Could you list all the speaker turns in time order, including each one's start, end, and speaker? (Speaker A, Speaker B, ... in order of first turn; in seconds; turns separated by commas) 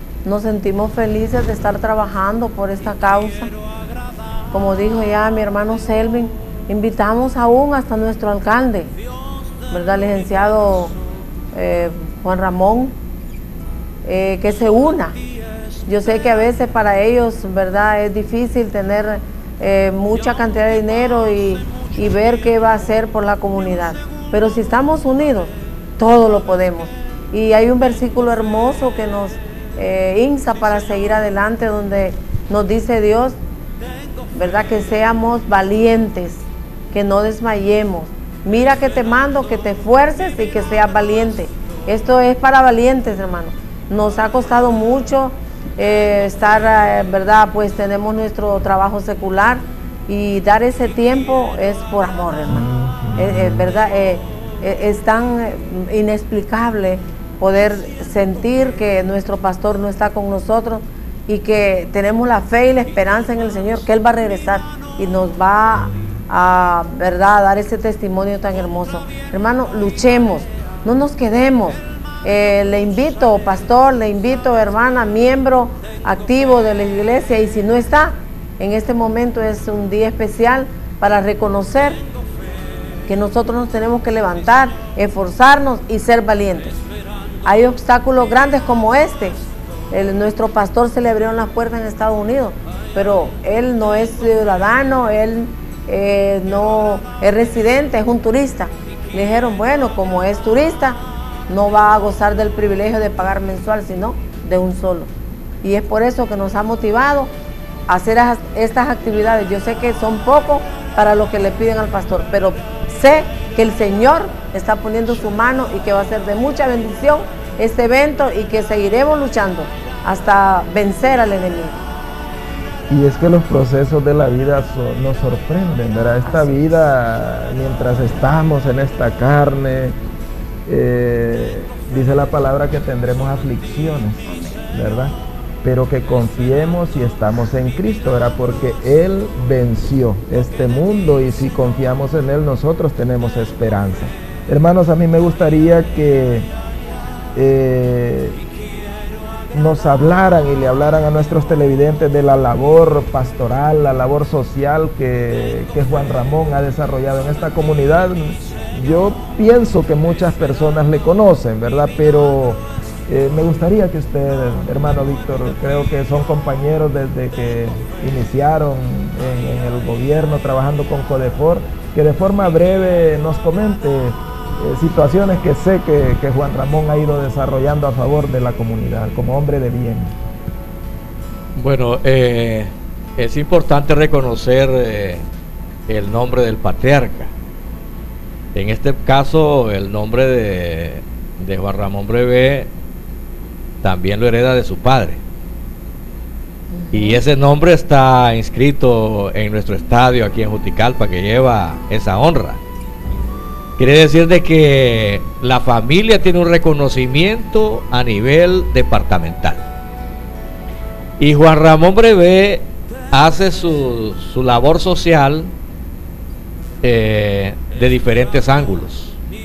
Speaker A: 0.2-3.5, Speaker A: 4.5-8.9, Speaker A: 9.7-11.0, Speaker A: 11.5-12.9, Speaker A: 14.1-15.2, Speaker A: 15.9-33.4, Speaker A: 34.3-82.0, Speaker B: 52.5-53.7, Speaker A: 83.1-86.8, Speaker A: 87.4-89.4, Speaker A: 89.9-105.1, Speaker A: 105.6-107.3, Speaker A: 107.9-121.8, Speaker B: 122.9-129.9, Speaker B: 130.7-146.5, Speaker A: 134.3-134.7, Speaker B: 147.3-148.4, Speaker B: 149.5-180.1, Speaker C: 181.6-185.2, Speaker C: 185.9-187.3, Speaker C: 188.6-192.7, Speaker C: 193.8-195.2, Speaker A: 196.7-197.2, Speaker C: 196.9-202.6, Speaker C: 203.8-209.6, Speaker C: 211.2-215.5, Speaker C: 216.8-219.2